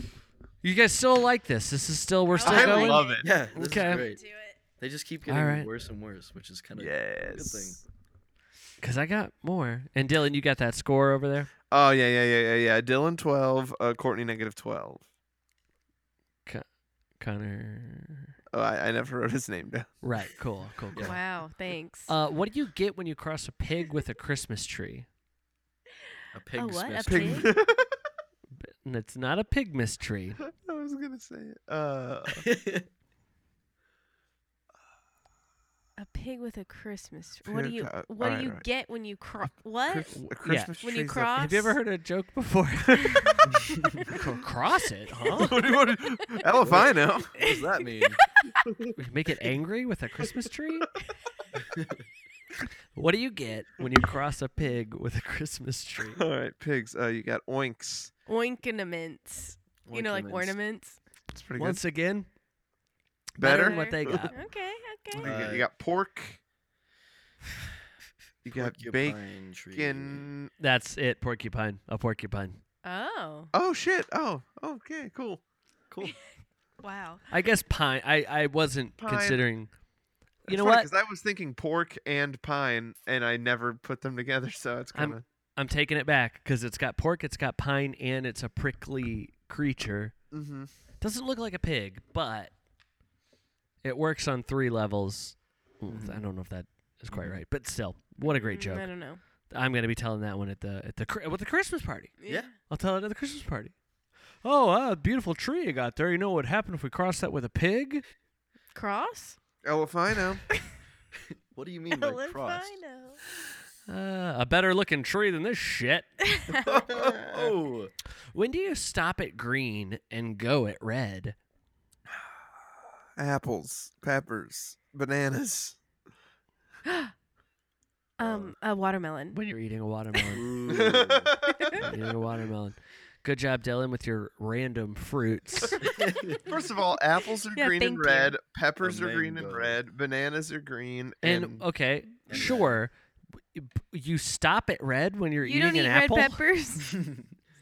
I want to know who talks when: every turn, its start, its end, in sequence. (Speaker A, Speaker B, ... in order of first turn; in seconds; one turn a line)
Speaker A: 0.6-4.1
Speaker B: 2.3-4.6
Speaker C: 2.4-3.3
Speaker D: 3.2-4.2
Speaker D: 4.8-7.8
Speaker A: 5.3-5.7
Speaker C: 6.8-7.8
Speaker A: 8.8-11.5
Speaker C: 11.7-15.1
Speaker A: 17.2-18.3
Speaker C: 18.5-19.9
Speaker A: 20.0-21.2
Speaker D: 20.9-21.2
Speaker B: 21.0-22.1
Speaker A: 22.1-25.1
Speaker D: 26.3-27.5
Speaker B: 26.5-27.5
Speaker C: 27.1-27.9
Speaker A: 28.8-30.4
Speaker C: 30.6-32.5
Speaker D: 32.4-32.9
Speaker B: 36.0-40.2
Speaker C: 37.5-38.6
Speaker C: 39.9-41.3
Speaker A: 40.4-40.8
Speaker B: 40.8-41.8
Speaker A: 41.3-43.4
Speaker D: 43.5-43.9
Speaker A: 44.1-45.6
Speaker C: 45.3-47.4
Speaker B: 45.4-45.8
Speaker D: 46.6-48.2
Speaker B: 47.4-48.6
Speaker A: 49.0-50.9
Speaker D: 51.6-52.0
Speaker A: 53.0-56.2
Speaker C: 56.0-58.1
Speaker B: 58.3-61.0
Speaker D: 59.9-60.6
Speaker C: 61.3-61.8
Speaker A: 61.6-62.3
Speaker C: 63.4-64.3
Speaker A: 63.4-64.4
Speaker B: 63.5-65.3
Speaker C: 65.1-66.4
Speaker D: 65.2-65.7
Speaker C: 68.4-70.5
Speaker D: 68.5-70.3
Speaker A: 70.6-72.6
Speaker B: 72.8-73.5
Speaker C: 73.5-75.4
Speaker D: 75.9-76.2
Speaker B: 76.8-77.2
Speaker A: 77.3-79.7
Speaker C: 79.0-79.4
Speaker A: 80.5-80.9
Speaker C: 80.5-85.2
Speaker A: 85.0-90.2
Speaker C: 90.3-90.7
Speaker A: 91.0-92.5
Speaker A: 93.8-98.9
Speaker D: 95.9-96.3
Speaker D: 97.1-97.4
Speaker B: 98.2-99.2
Speaker A: 99.5-103.7
Speaker B: 102.2-102.5
Speaker A: 104.4-108.0
Speaker B: 108.7-109.4
Speaker C: 109.6-110.5
Speaker D: 111.5-112.7
Speaker B: 111.9-113.2
Speaker A: 113.9-116.1
Speaker B: 116.2-116.8
Speaker D: 116.6-117.9
Speaker C: 116.9-117.5
Speaker A: 118.3-121.4
Speaker C: 123.2-125.8
Speaker B: 126.8-127.1
Speaker B: 128.2-129.4
Speaker D: 128.2-128.5
Speaker A: 129.3-130.5
Speaker D: 130.3-131.4
Speaker C: 130.7-131.8
Speaker A: 131.7-135.8
Speaker D: 136.0-136.4
Speaker C: 136.4-141.6
Speaker B: 137.5-138.3
Speaker D: 138.8-139.8
Speaker A: 141.2-146.4
Speaker D: 142.3-142.8
Speaker B: 145.4-146.9
Speaker D: 146.9-147.3